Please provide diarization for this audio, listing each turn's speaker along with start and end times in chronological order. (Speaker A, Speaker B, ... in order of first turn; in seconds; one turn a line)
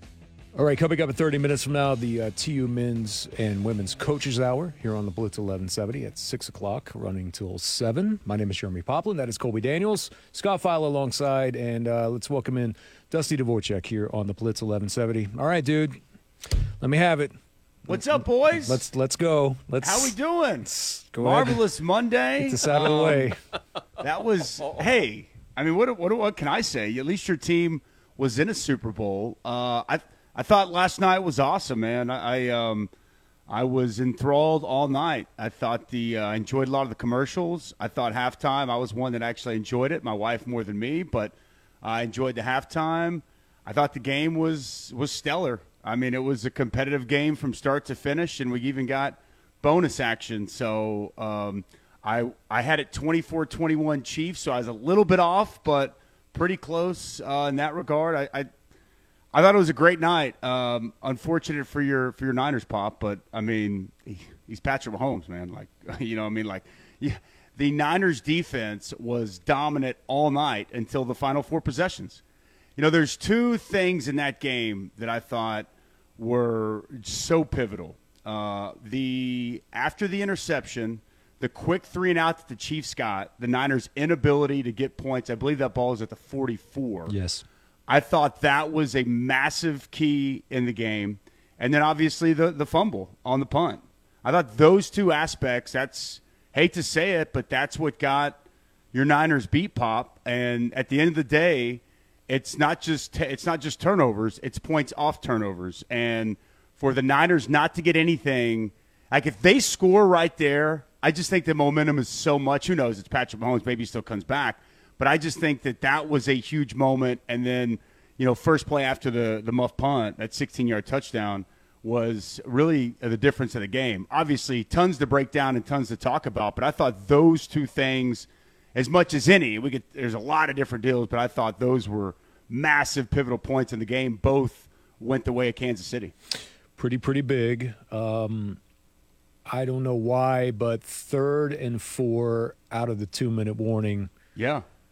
Speaker A: 0.6-16.0
Speaker A: 16.8-17.3
Speaker B: 17.9-18.8
Speaker A: 17.9-21.6
Speaker B: 19.8-20.7
Speaker B: 21.2-23.3
Speaker A: 22.4-23.4
Speaker B: 24.0-32.9
Speaker B: 33.5-58.5
Speaker B: 59.3-72.2
Speaker B: 72.8-87.1
Speaker A: 87.1-87.4
Speaker B: 87.9-98.4
Speaker B: 98.9-136.1
Speaker A: 136.8-138.6
Speaker A: 139.5-144.1
Speaker B: 144.3-144.6